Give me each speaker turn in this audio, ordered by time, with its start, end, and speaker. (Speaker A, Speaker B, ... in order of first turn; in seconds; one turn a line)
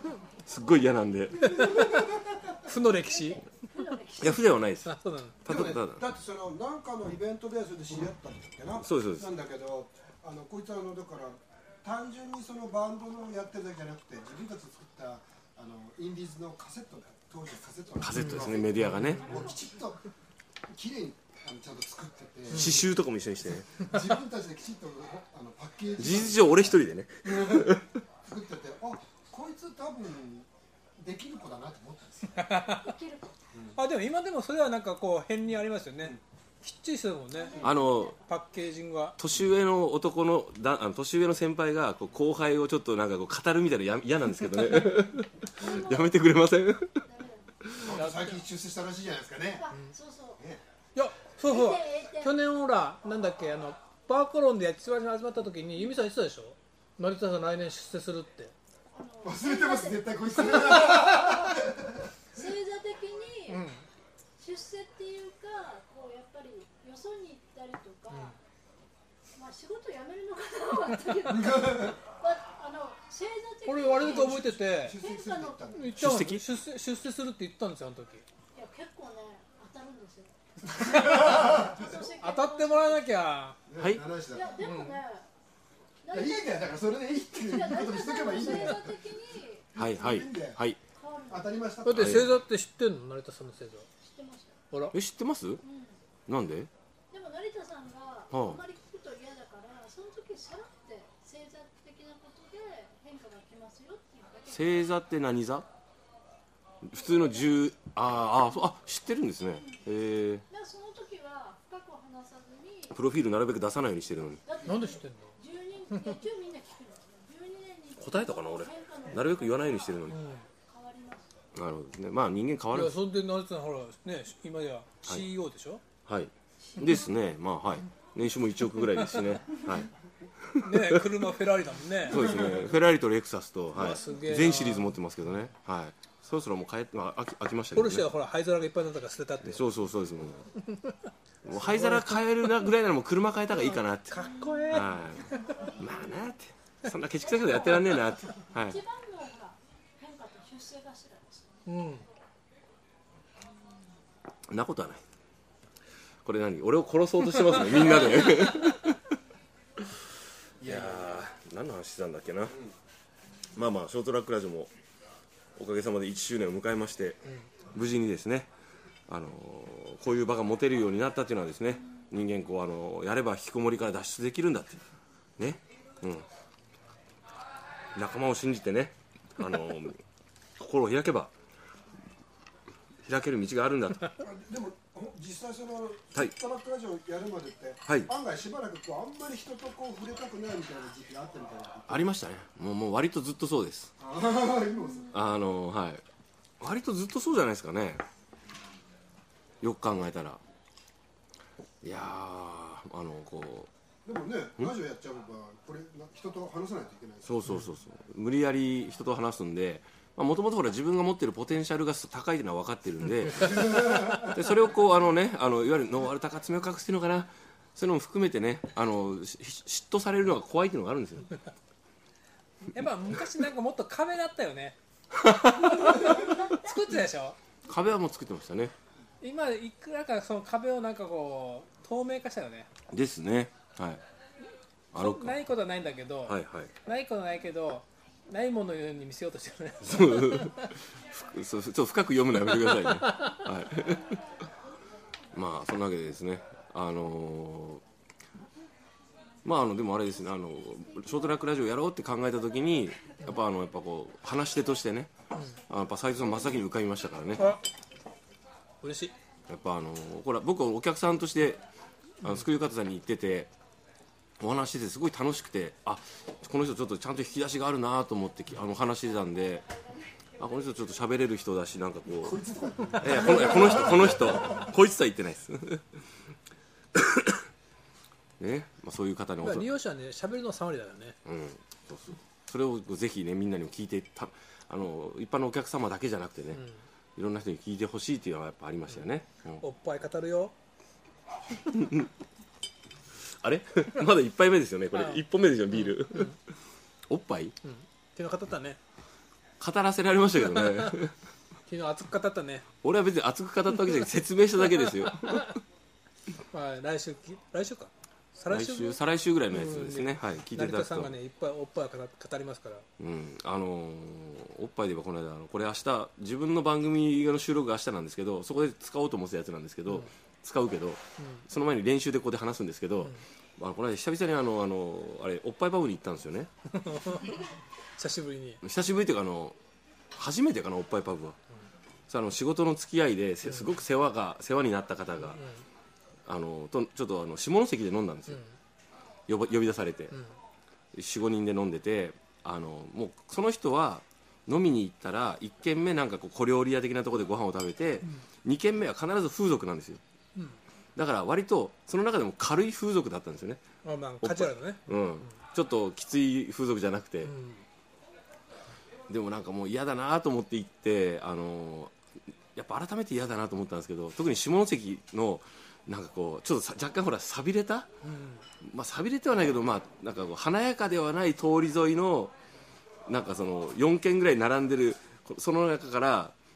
Speaker A: 0.4-1.7
Speaker B: 1.3-2.8
Speaker C: 2.6-3.4
Speaker D: 3.1-4.5
Speaker A: 4.2-4.9
Speaker C: 4.8-5.4
Speaker A: 5.4-6.0
Speaker B: 5.4-20.0
Speaker A: 8.8-9.3
Speaker A: 18.0-19.4
Speaker C: 18.1-19.5
Speaker B: 20.7-22.9
Speaker A: 22.5-23.8
Speaker C: 22.5-22.8
Speaker B: 23.6-27.7
Speaker A: 26.0-27.9
Speaker B: 28.2-32.3
Speaker C: 32.3-32.9
Speaker D: 32.7-33.4
Speaker C: 33.7-39.2
Speaker D: 37.3-38.1
Speaker A: 37.6-38.2
Speaker A: 39.2-47.0
Speaker D: 45.5-46.1
Speaker D: 47.1-47.5
Speaker B: 47.8-49.7
Speaker C: 47.9-48.4
Speaker D: 49.5-50.4
Speaker C: 50.9-58.5
Speaker D: 51.5-52.4
Speaker D: 58.9-61.4
Speaker B: 59.2-62.1
Speaker D: 62.3-63.6
Speaker C: 63.5-63.9
Speaker D: 64.4-68.3
Speaker D: 69.3-75.6
Speaker B: 71.3-72.0
Speaker C: 73.6-75.0
Speaker B: 74.1-76.0
Speaker C: 75.7-78.2
Speaker A: 75.9-76.4
Speaker D: 78.5-83.0
Speaker C: 80.7-83.6
Speaker B: 80.9-81.8
Speaker B: 83.7-84.6
Speaker A: 83.8-84.0
Speaker D: 84.3-85.3
Speaker C: 84.6-85.0
Speaker D: 86.0-86.6
Speaker B: 86.1-89.0
Speaker D: 87.4-89.7
Speaker B: 89.7-90.6
Speaker A: 89.8-90.8
Speaker D: 90.9-91.7
Speaker B: 91.3-92.4
Speaker C: 91.8-93.9
Speaker A: 91.9-92.3
Speaker D: 94.0-94.6
Speaker C: 94.7-95.0
Speaker A: 94.9-95.6
Speaker D: 95.6-96.0
Speaker A: 96.3-96.7
Speaker D: 97.1-104.9
Speaker A: 98.3-98.6
Speaker A: 104.5-105.7
Speaker A: 106.8-110.4
Speaker D: 110.5-113.0
Speaker A: 112.9-114.4
Speaker D: 114.5-121.4
Speaker C: 114.6-115.4
Speaker A: 118.0-120.2
Speaker C: 120.1-120.4
Speaker A: 121.5-122.9
Speaker C: 122.7-125.8
Speaker A: 126.0-129.9
Speaker A: 130.4-131.0
Speaker C: 130.6-132.4
Speaker A: 132.1-138.1
Speaker C: 133.8-135.0
Speaker C: 137.7-139.7
Speaker A: 139.4-140.5
Speaker C: 140.7-140.9
Speaker A: 141.4-144.2
Speaker C: 141.5-142.5
Speaker C: 143.5-145.7
Speaker A: 144.7-145.2
Speaker A: 145.8-148.8
Speaker D: 147.2-151.7
Speaker C: 151.6-152.1
Speaker A: 154.5-155.0
Speaker A: 156.2-159.0
Speaker A: 160.6-162.6
Speaker A: 163.5-164.7
Speaker A: 165.6-167.2
Speaker A: 167.7-168.5
Speaker A: 169.1-174.8
Speaker A: 175.4-176.2
Speaker A: 177.9-180.0
Speaker A: 180.6-181.3
Speaker A: 183.0-184.1
Speaker B: 184.2-192.1
Speaker A: 191.9-193.9
Speaker B: 194.0-195.1
Speaker D: 194.9-195.2
Speaker A: 195.1-196.0
Speaker A: 196.6-198.0
Speaker A: 199.6-200.4
Speaker A: 201.8-203.7
Speaker B: 204.0-207.4
Speaker A: 207.2-221.3
Speaker B: 213.4-214.3
Speaker C: 222.6-224.8
Speaker A: 225.2-226.2
Speaker D: 225.6-226.9
Speaker C: 225.8-227.4
Speaker A: 227.7-228.7
Speaker C: 229.2-232.7
Speaker A: 232.9-234.0
Speaker A: 234.9-235.4
Speaker C: 234.9-240.7
Speaker A: 236.2-236.7
Speaker A: 239.8-244.2
Speaker A: 245.3-247.8
Speaker A: 249.4-255.1
Speaker C: 255.3-255.6
Speaker A: 255.7-257.5
Speaker C: 257.4-257.6
Speaker C: 258.8-259.1
Speaker A: 259.5-261.6
Speaker A: 262.2-263.5
Speaker A: 264.4-269.7
Speaker A: 270.4-272.4
Speaker B: 272.2-274.6
Speaker A: 273.0-276.0
Speaker A: 276.9-277.4
Speaker A: 278.4-279.7
Speaker C: 279.4-281.2
Speaker A: 281.2-286.6
Speaker C: 286.5-286.8
Speaker A: 287.1-289.6
Speaker C: 289.6-290.5
Speaker A: 293.4-296.4
Speaker C: 294.9-296.3
Speaker A: 297.1-297.5
Speaker C: 297.6-298.8
Speaker A: 299.6-301.1
Speaker C: 300.4-300.9
Speaker C: 301.7-302.6
Speaker A: 302.8-305.5
Speaker C: 306.4-312.9
Speaker A: 308.5-311.1
Speaker A: 313.0-326.5
Speaker C: 321.2-321.4
Speaker C: 326.7-328.6
Speaker A: 328.6-329.6
Speaker A: 330.1-331.4
Speaker A: 332.1-335.4
Speaker C: 333.4-333.7
Speaker C: 335.2-335.6
Speaker A: 336.3-338.4
Speaker A: 339.3-340.1
Speaker A: 340.9-350.0
Speaker A: 350.9-353.6
Speaker C: 353.8-355.0
Speaker A: 354.2-357.3
Speaker C: 357.2-357.6
Speaker A: 359.1-361.9
Speaker A: 362.5-367.9
Speaker C: 368.0-368.4
Speaker A: 368.6-372.3
Speaker A: 373.1-376.3